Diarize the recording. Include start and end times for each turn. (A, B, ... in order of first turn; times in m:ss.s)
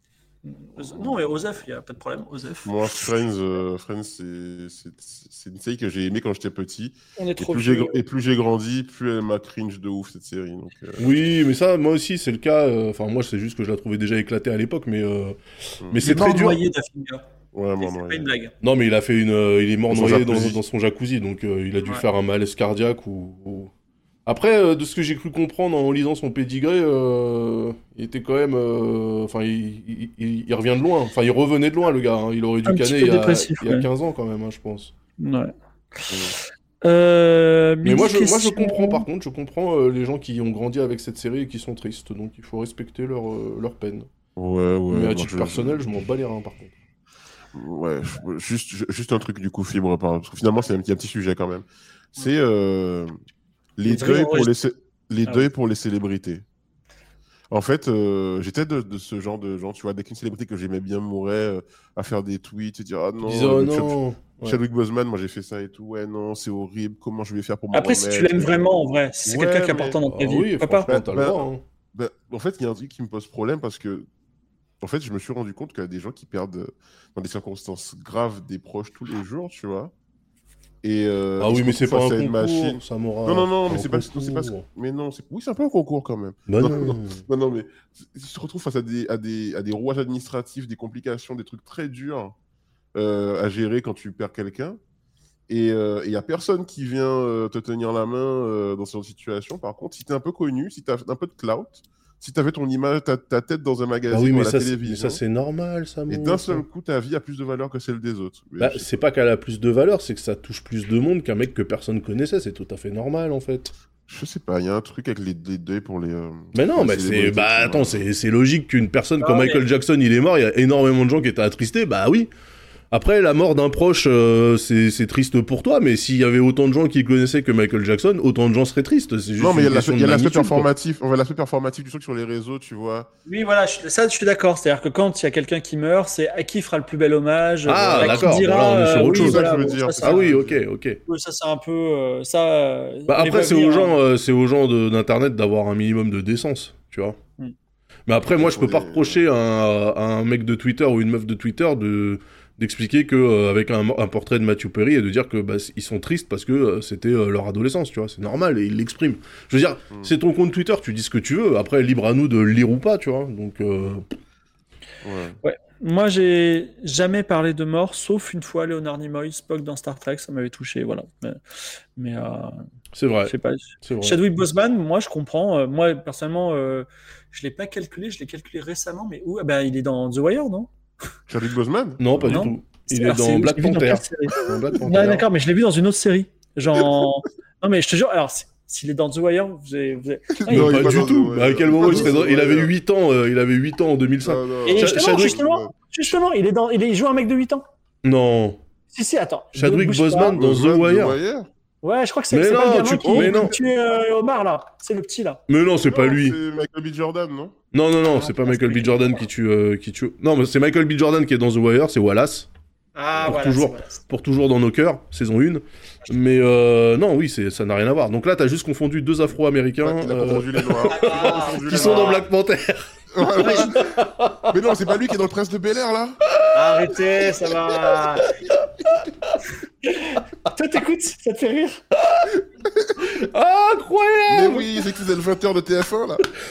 0:00.4-0:02.9 A
0:00.8-0:01.3 B
0:02.6-0:11.2 B
0:07.2-0:08.0 A
0:11.0-0:16.6 C
0:16.0-0:17.2 A
0:17.5-0:18.3 B
0:17.8-0:18.5 A
0:18.6-0:23.7 C
0:19.9-0:20.6 B
0:24.2-0:34.9 C
0:32.6-0:33.9 A
0:35.2-0:36.2 A
0:36.1-0:36.4 B
0:36.8-0:39.0 A
0:37.8-0:44.1 C
0:44.4-0:45.8 B
0:44.9-0:46.7 C
0:47.5-0:53.2 B
0:53.8-0:56.4 B
0:53.8-0:54.5 A
0:57.5-1:08.6 B
1:03.2-1:04.6 C
1:07.7-1:10.9 A
1:09.2-1:10.0 B
1:10.2-1:11.6 C
1:10.9-1:14.0 B
1:14.8-1:19.9 B
1:20.8-1:32.3 B
1:21.4-1:24.6 C
1:26.5-1:27.2 C
1:32.9-1:34.8 B
1:35.5-1:45.2 B
1:44.1-1:46.6 C
1:46.1-1:48.9 B
1:48.6-1:53.7 C
1:54.1-1:58.0 B
1:56.5-2:02.3 C
1:59.2-1:59.6 A
2:02.9-2:10.7 C
2:09.4-2:13.1 B
2:13.3-2:20.4 A
2:17.6-2:19.5 C
2:17.8-2:20.6 B
2:20.0-2:21.0 C
2:21.0-2:24.0 A
2:23.1-2:27.2 C
2:28.1-2:44.0 C
2:28.4-2:29.2 B
2:45.0-2:45.4 B
2:45.4-2:51.4 A
2:52.0-2:52.6 A
2:52.9-2:54.2 C
2:53.2-3:00.7 A
3:01.3-3:02.5 B
3:02.0-3:05.3 C
3:02.3-3:10.9 A
3:10.3-3:12.7 B
3:10.5-3:15.4 C
3:11.8-3:12.1 A
3:14.2-3:15.7 B
3:14.6-3:17.6 A
3:18.0-3:18.6 C
3:18.9-3:20.4 A
3:19.5-3:21.2 C
3:20.4-3:21.5 B
3:21.8-3:25.4 A
3:22.3-3:23.6 C
3:23.0-3:23.5 B
3:25.5-3:26.4 C
3:25.9-3:27.6 B
3:27.7-3:32.5 C
3:28.1-3:29.2 A
3:33.0-3:34.0 A
3:33.2-3:44.7 C
3:39.8-3:42.2 B
3:40.8-3:42.2 A
3:43.1-3:43.9 B
3:43.3-3:43.9 A
3:44.5-3:46.2 B
3:46.3-3:49.0 C
3:46.5-3:48.4 A
3:49.8-3:51.8 A
3:52.0-3:52.3 C
3:52.8-3:53.0 B
3:53.0-3:54.8 C
3:54.3-3:56.2 B